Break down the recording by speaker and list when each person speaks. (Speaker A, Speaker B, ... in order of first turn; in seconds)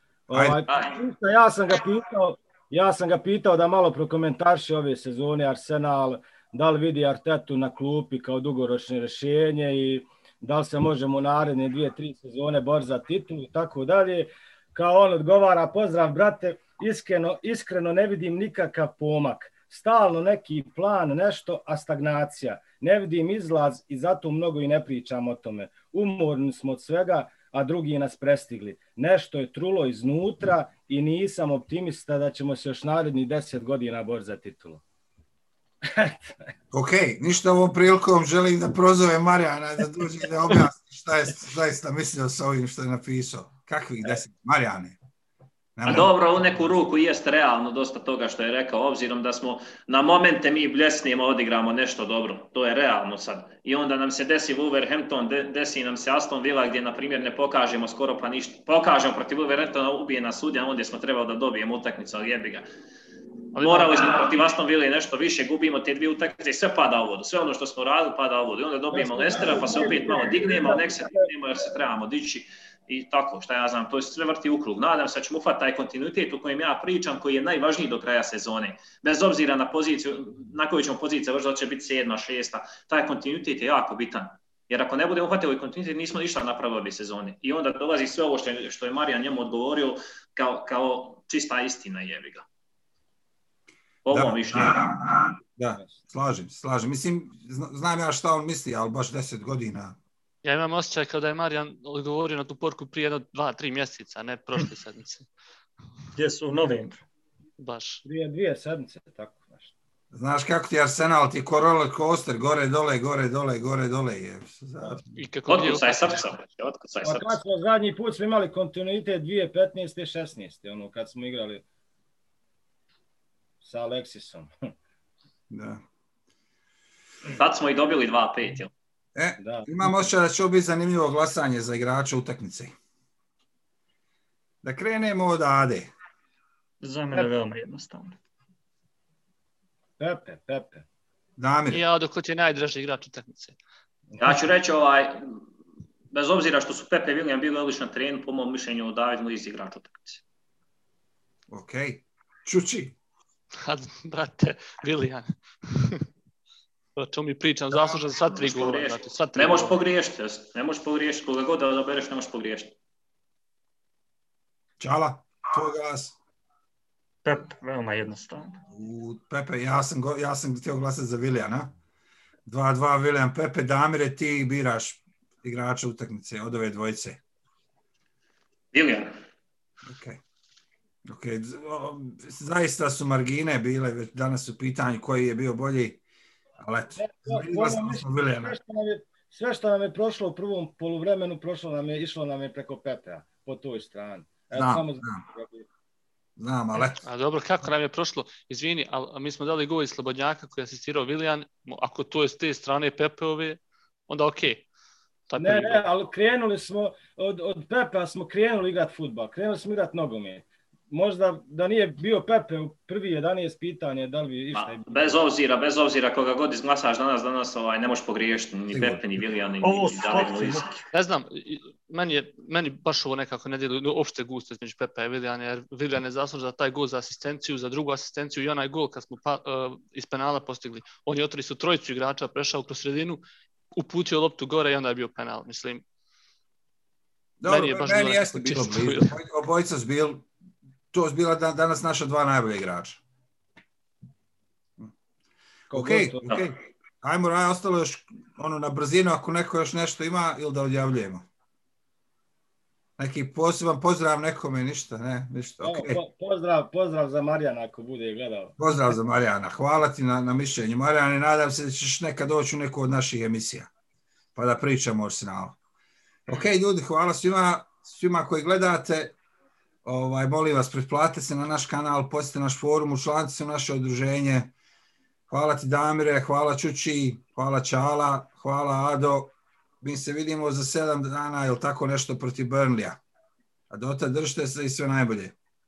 Speaker A: 0.3-34.8, 68.9-71.3, 108.1-109.7, 117.0-121.6, 123.6-124.5, 129.4-130.1, 140.0-140.8, 187.0-195.7, 205.4-215.2, 245.7-246.3, 255.6-258.6
Speaker B: 0.3-0.6, 36.7-45.0, 45.8-46.1, 94.1-100.0, 110.1-115.1, 125.5-125.8, 129.2-132.8, 134.6-135.9, 141.4-141.8, 151.5-152.9, 164.8-166.2, 168.7-171.7, 172.5-177.2, 179.8-180.2, 181.1-186.0, 186.6-188.6, 194.5-195.2, 196.4-197.0, 218.7-219.0, 237.4-240.3, 240.9-243.0, 245.7-251.3, 253.0-256.0, 258.6-263.7, 264.4-265.6, 266.3-269.2, 269.8-274.5, 275.3-283.0, 283.7-285.4
Speaker C: 0.7-1.0, 45.9-62.7, 63.6-92.5, 94.0-94.8, 115.5-117.4, 127.3-128.7, 144.2-145.4, 146.1-150.2, 157.7-162.7, 178.7-179.1, 214.5-220.7
Speaker D: 63.5-64.2, 100.4-105.3, 107.6-108.0, 115.1-116.2, 141.7-143.6, 153.7-156.1, 157.0-159.8, 196.9-204.7, 205.3-205.9, 220.9-233.2, 233.8-235.8, 237.5-239.2
Speaker E: 106.2-107.0, 136.8-138.2, 167.2-168.6, 219.6-220.8